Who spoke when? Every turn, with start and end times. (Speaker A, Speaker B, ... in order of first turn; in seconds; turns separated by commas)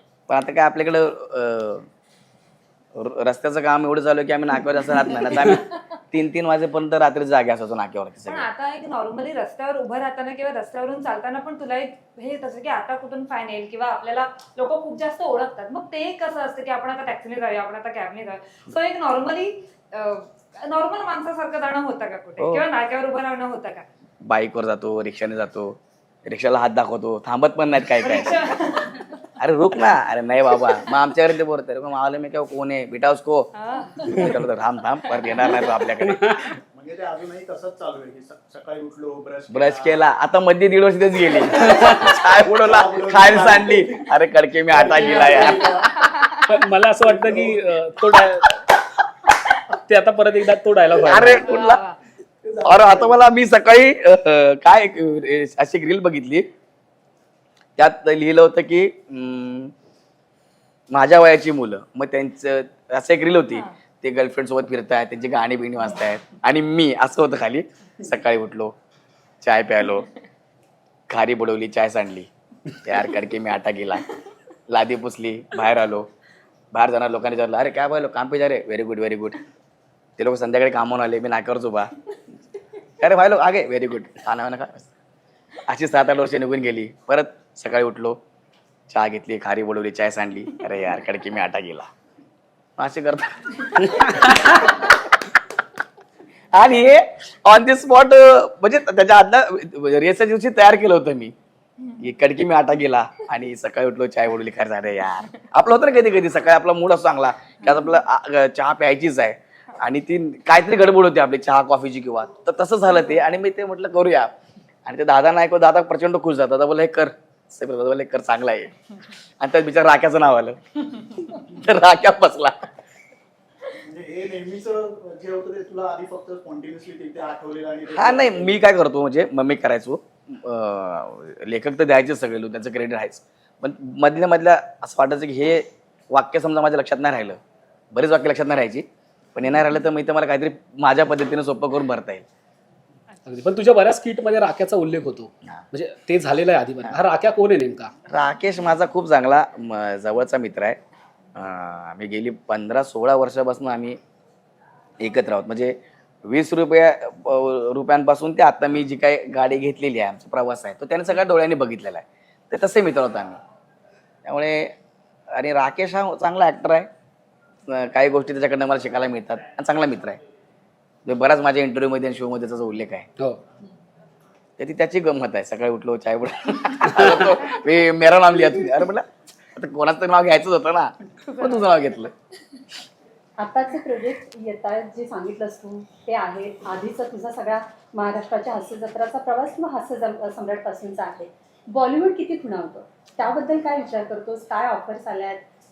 Speaker A: 0.3-1.9, Speaker A: 2.9-8.5, Speaker B: 8.2-23.9, Speaker A: 22.4-22.6, Speaker A: 24.2-28.4, Speaker B: 28.0-29.1, Speaker A: 29.4-33.5, Speaker B: 33.5-34.0, Speaker A: 34.0-36.5, Speaker C: 36.7-40.0, Speaker A: 39.5-45.7, Speaker C: 41.7-44.0, Speaker C: 44.7-45.9, Speaker D: 46.5-48.6, Speaker C: 47.0-47.6, Speaker D: 49.7-51.5, Speaker A: 51.0-51.8, Speaker B: 51.4-52.0, Speaker C: 52.4-53.2, Speaker A: 52.6-56.5, Speaker A: 57.8-59.7, Speaker A: 60.9-68.7, Speaker A: 69.4-70.1, Speaker A: 71.1-72.3, Speaker A: 72.8-74.1, Speaker A: 74.7-76.1, Speaker A: 76.7-79.4, Speaker A: 80.2-81.9, Speaker A: 83.0-84.9, Speaker A: 85.7-88.2, Speaker A: 88.9-91.9, Speaker A: 92.8-94.9, Speaker A: 96.5-101.3, Speaker A: 102.0-114.3, Speaker A: 114.8-118.7, Speaker A: 119.4-122.7, Speaker C: 123.8-128.6, Speaker A: 127.9-137.4, Speaker A: 137.9-142.2, Speaker D: 143.2-147.9, Speaker A: 148.1-150.8, Speaker A: 151.3-154.0, Speaker A: 155.0-163.4, Speaker A: 164.2-164.7, Speaker A: 165.3-166.9, Speaker A: 167.7-170.2, Speaker A: 171.1-173.1, Speaker A: 174.6-182.1, Speaker E: 183.4-195.4